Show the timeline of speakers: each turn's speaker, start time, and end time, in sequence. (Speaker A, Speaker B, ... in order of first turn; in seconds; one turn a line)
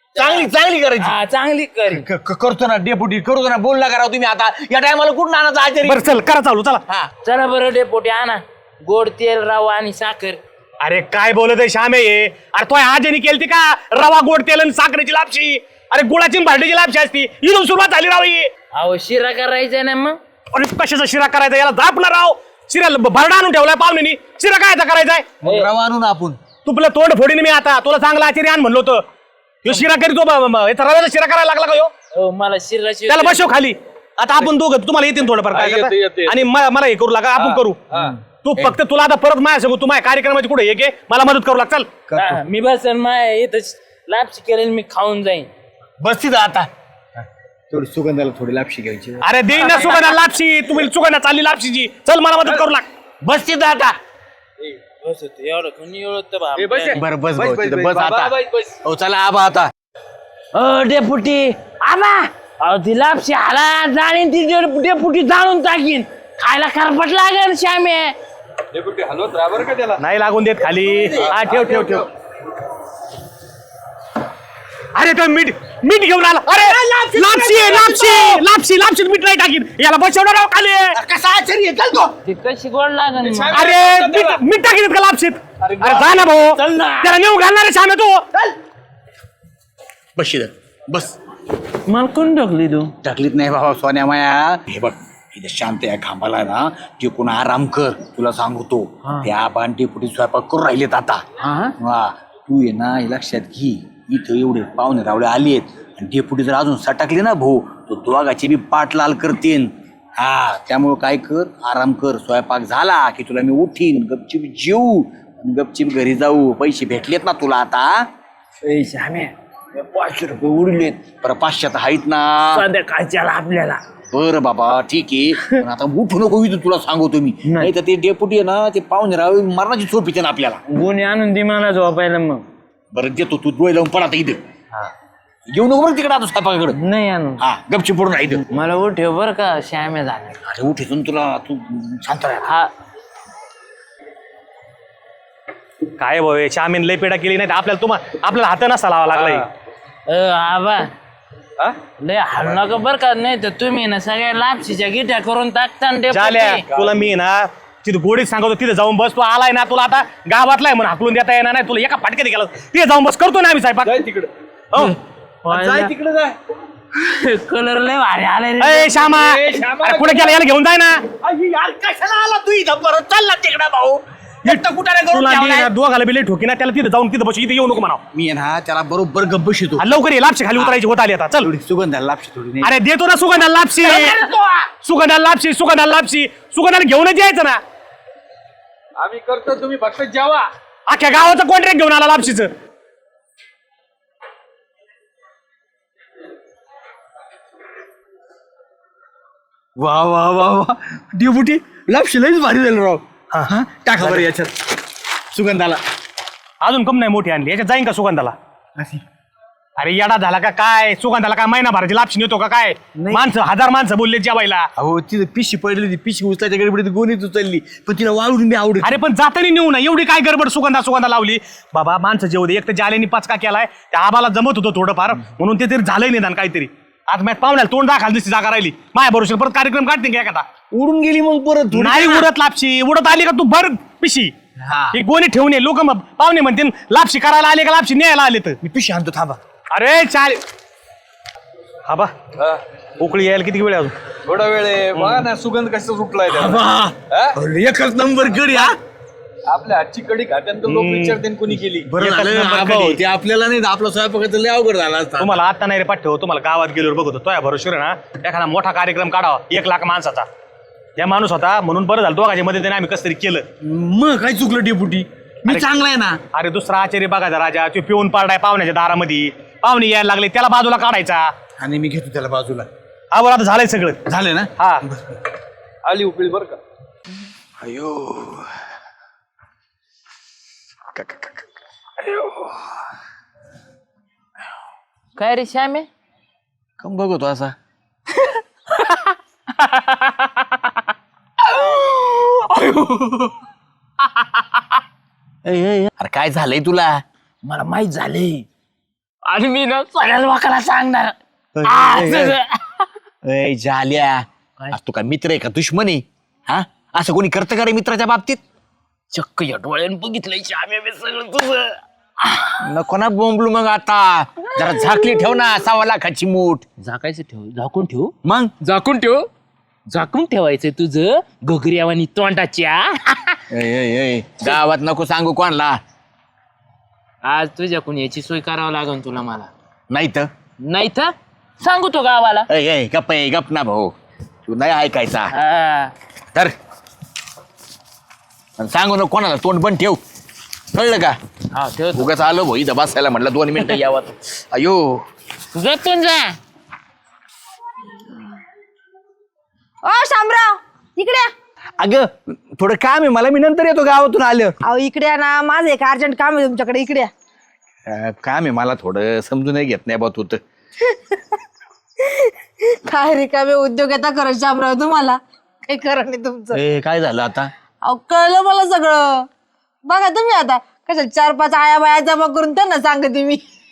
Speaker A: 0.1-2.0
Speaker B: 0.2-1.1
Speaker B: 1.9-6.1
Speaker C: 5.8-6.8
Speaker A: 7.2-10.4
Speaker C: 10.8-18.5
Speaker A: 18.7-20.2
Speaker C: 20.5-25.3
Speaker B: 25.4-26.4
Speaker A: 25.4-25.7
Speaker C: 26.6-29.0
Speaker C: 29.6-31.9
Speaker A: 32.1-33.5
Speaker C: 33.1-37.8
Speaker D: 35.5-36.4
Speaker D: 37.4-38.1
Speaker B: 37.9-38.8
Speaker C: 38.4-41.9
Speaker B: 42.1-42.4
Speaker A: 42.1-45.5
Speaker B: 46.0-46.7
Speaker B: 47.7-49.3
Speaker C: 49.2-52.9
Speaker A: 49.5-50.1
Speaker B: 53.2-54.0
Speaker A: 55.0-57.0
Speaker D: 56.5-58.7
Speaker B: 56.9-59.7
Speaker A: 60.5-68.2
Speaker D: 68.7-70.0
Speaker C: 70.0-72.1
Speaker D: 71.2-72.0
Speaker C: 74.9-81.0
Speaker B: 76.6-78.2
Speaker B: 80.9-82.2
Speaker A: 82.2-83.7
Speaker D: 83.2-84.4
Speaker C: 83.5-88.2
Speaker D: 85.6-86.0
Speaker A: 86.5-87.2
Speaker B: 90.2-91.2
Speaker A: 91.9-92.9
Speaker B: 93.0-101.2
Speaker A: 99.0-99.3
Speaker A: 101.4-101.7
Speaker B: 101.8-118.1
Speaker A: 118.6-120.9
Speaker B: 120.0-122.6
Speaker A: 122.5-123.8
Speaker B: 124.1-130.6
Speaker A: 127.5-127.7
Speaker A: 130.7-132.5
Speaker B: 132.9-134.4
Speaker B: 135.5-136.8
Speaker A: 136.7-137.4
Speaker B: 137.4-138.4
Speaker A: 138.5-140.4
Speaker B: 140.4-142.5
Speaker A: 142.4-142.7
Speaker C: 146.0-149.5
Speaker D: 149.1-149.4
Speaker A: 150.1-150.9
Speaker A: 152.0-156.6
Speaker C: 156.1-164.0
Speaker D: 156.7-157.0
Speaker D: 163.8-164.3
Speaker A: 165.4-165.9
Speaker D: 165.6-166.3
Speaker A: 166.9-169.1
Speaker C: 168.6-171.1
Speaker D: 169.1-170.3
Speaker B: 171.2-175.7
Speaker C: 174.4-178.0
Speaker B: 178.1-179.9
Speaker C: 179.8-181.5
Speaker B: 180.5-180.8
Speaker B: 181.4-182.7
Speaker C: 182.6-184.2
Speaker B: 183.9-184.3
Speaker C: 184.8-187.6
Speaker D: 189.0-190.5
Speaker C: 190.9-192.5
Speaker B: 199.8-204.8
Speaker C: 203.3-204.2
Speaker B: 205.3-205.8
Speaker C: 206.6-208.3
Speaker B: 208.8-209.0
Speaker C: 209.8-214.7
Speaker B: 213.0-213.3
Speaker B: 214.8-219.0
Speaker C: 218.8-230.4
Speaker B: 230.7-232.3
Speaker C: 231.7-234.3
Speaker B: 234.6-235.0
Speaker C: 234.9-238.6
Speaker B: 238.6-239.4
Speaker C: 239.7-240.4
Speaker C: 241.8-242.1
Speaker D: 242.4-242.6
Speaker C: 243.0-243.9
Speaker D: 244.2-247.3
Speaker C: 244.9-245.2
Speaker B: 246.2-248.7
Speaker D: 249.4-251.9
Speaker C: 250.7-251.2
Speaker B: 251.9-255.4
Speaker C: 252.0-253.0
Speaker C: 255.2-260.2
Speaker C: 261.0-263.4
Speaker B: 263.6-266.2
Speaker C: 266.3-271.3
Speaker B: 271.6-272.7
Speaker C: 273.1-274.0
Speaker B: 274.1-275.2
Speaker C: 274.6-274.8
Speaker D: 275.8-276.6
Speaker B: 277.6-278.5
Speaker B: 280.9-281.4
Speaker B: 282.1-282.5
Speaker A: 285.1-285.9
Speaker B: 286.8-287.5
Speaker A: 289.6-290.3
Speaker A: 291.6-292.4
Speaker B: 295.4-297.0
Speaker A: 297.4-298.5
Speaker A: 299.2-302.9
Speaker B: 301.5-302.4
Speaker B: 303.2-308.4
Speaker A: 309.1-312.6
Speaker B: 312.6-316.6
Speaker A: 316.8-319.3
Speaker B: 318.2-318.5
Speaker A: 319.9-323.4
Speaker B: 323.5-325.8
Speaker A: 327.2-329.5
Speaker B: 329.9-330.3
Speaker A: 330.6-332.5
Speaker B: 332.5-333.9
Speaker B: 334.5-335.3
Speaker A: 335.3-335.9
Speaker B: 338.6-340.0
Speaker B: 340.7-341.1
Speaker A: 341.5-342.1
Speaker B: 341.9-345.0
Speaker A: 345.5-346.4
Speaker E: 349.8-351.3
Speaker B: 351.8-354.6
Speaker E: 354.6-357.1
Speaker B: 357.9-360.4
Speaker E: 362.0-366.6
Speaker B: 366.5-367.5
Speaker E: 367.8-369.3
Speaker E: 369.8-373.4